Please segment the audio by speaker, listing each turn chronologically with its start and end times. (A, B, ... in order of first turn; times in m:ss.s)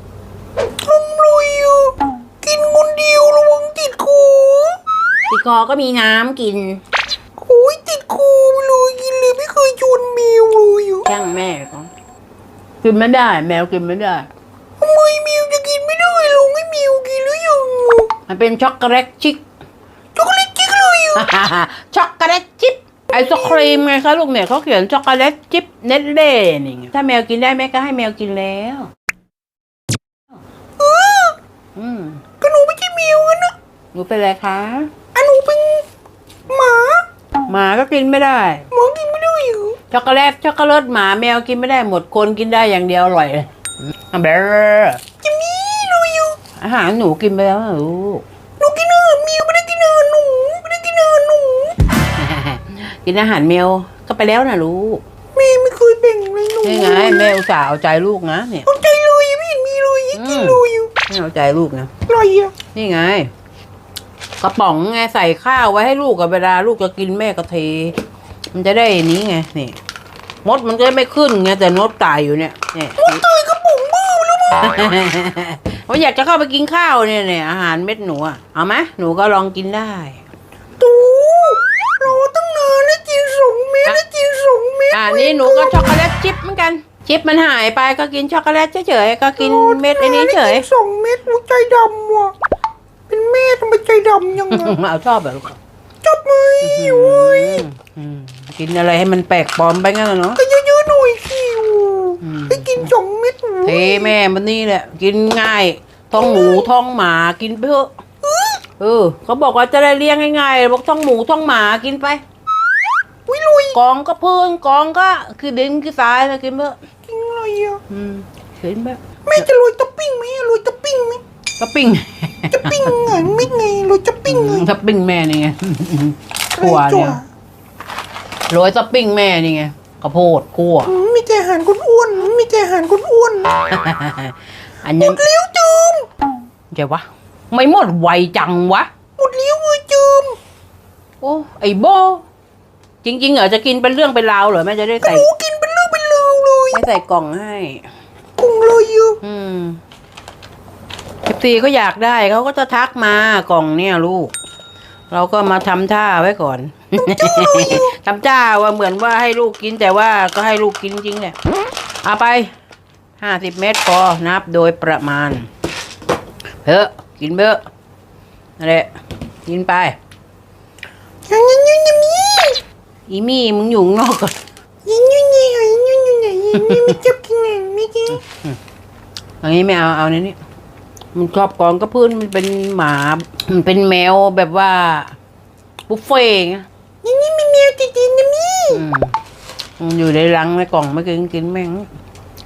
0:00.8-0:04.8 A
0:05.3-0:06.8 B
0:07.4-0:11.1 A
0:11.0-0:11.9 B
0:12.8-0:14.3 B
0:14.8-0:18.1 A
0:18.3-0:19.4 B
0:20.1-0:21.3 A
0:21.1-0:28.9 B
0:23.1-0:23.8 A
0:30.8-0:31.4 A
0:31.8-0:32.2 B
0:32.4-0:33.5 A
0:33.9-0:34.9 B
0:35.1-0:35.8 A
0:36.5-0:37.0 A
0:37.5-0:38.7 B
0:38.7-0:39.8 A
0:39.9-0:43.5 B
0:44.1-0:45.0 B
0:45.2-0:46.4 A
0:46.6-0:48.2 B
0:48.6-0:51.8 A
0:52.1-0:55.0 B
0:55.3-0:57.4 A
0:56.6-0:58.7 B
0:58.6-1:00.9 A
1:00.1-1:01.9 B
1:02.0-1:02.5 A
1:02.7-1:03.3 B
1:04.4-1:08.0 B
1:08.5-1:09.8 B
1:10.4-1:13.2 B
1:13.0-1:14.9 A
1:14.6-1:20.2 B
1:20.8-1:26.0 A
1:24.9-1:30.7 B
1:29.4-1:32.3 A
1:33.1-1:34.8 A
1:34.4-1:35.6 B
1:36.0-1:37.6 A
1:36.6-1:40.4 B
1:40.4-1:44.1 A
1:42.2-1:42.9 B
1:43.6-1:47.9 B
1:46.1-1:46.7 A
1:48.2-1:48.6 A
1:48.8-1:52.2 B
1:53.3-1:53.8 A
1:53.7-1:56.8 B
1:57.1-1:57.8 A
1:57.9-1:59.4 B
1:59.2-2:01.2 A
2:01.6-2:02.9 B
2:02.5-2:04.6 A
2:04.3-2:07.2 B
2:06.6-2:07.2 A
2:08.5-2:10.9 B
2:10.9-2:13.6 A
2:13.6-2:15.2 B
2:15.0-2:16.1 A
2:16.7-2:18.9 B
2:19.2-2:20.4 A
2:21.2-2:22.2 B
2:23.0-2:25.3 B
2:25.0-2:26.8 A
2:26.7-2:27.8 B
2:28.4-2:29.2 A
2:29.2-2:29.8 B
2:31.2-2:34.3 B
2:35.1-2:41.4 B
2:37.0-2:37.9 A
2:42.0-2:42.5 B
2:43.2-2:45.5 B
2:46.6-2:47.6 B
2:48.6-2:50.0 B
2:51.3-2:52.6 A
2:53.1-2:54.4 B
2:54.8-2:58.2 A
2:56.6-2:57.0 B
2:58.1-2:58.6 B
2:59.4-3:00.4 B
3:01.1-3:05.2 B
3:05.9-3:06.6 B
3:07.0-3:08.8 A
3:08.7-3:09.1 B
3:09.8-3:11.9 B